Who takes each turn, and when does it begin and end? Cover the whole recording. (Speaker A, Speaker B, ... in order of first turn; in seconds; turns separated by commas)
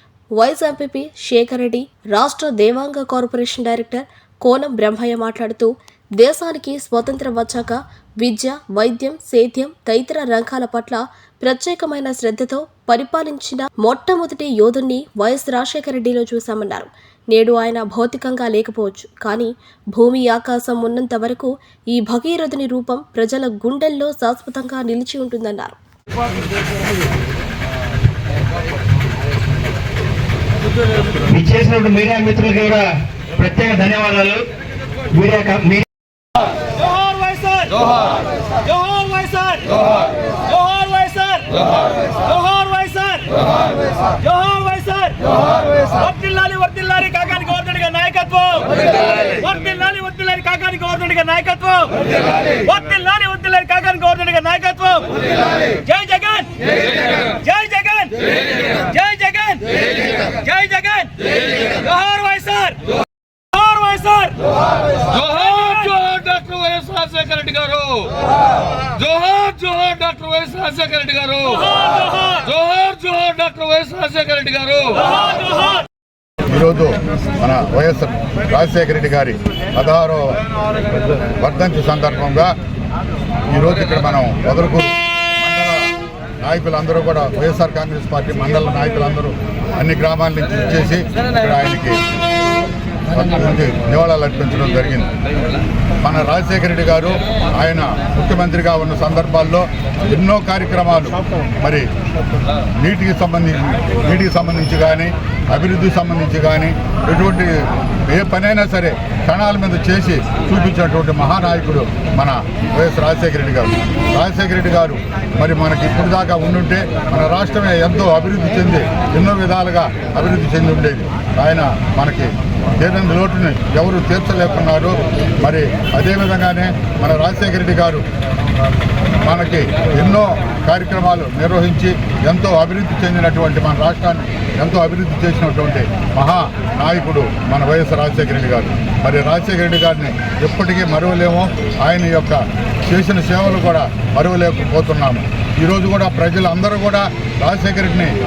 Speaker A: 0.4-25.8, Speaker B: 31.3-34.5, Speaker B: 35.1-35.9, Speaker C: 36.7-62.9, Speaker C: 63.5-65.8, Speaker D: 65.2-68.2, Speaker D: 68.9-75.2, Speaker C: 75.4-75.8, Speaker E: 76.5-80.4, Speaker E: 81.2-82.5, Speaker E: 83.5-85.9, Speaker E: 86.4-92.0, Speaker E: 93.1-95.1, Speaker E: 96.0-101.9, Speaker E: 102.8-128.0, Speaker E: 129.2-148.1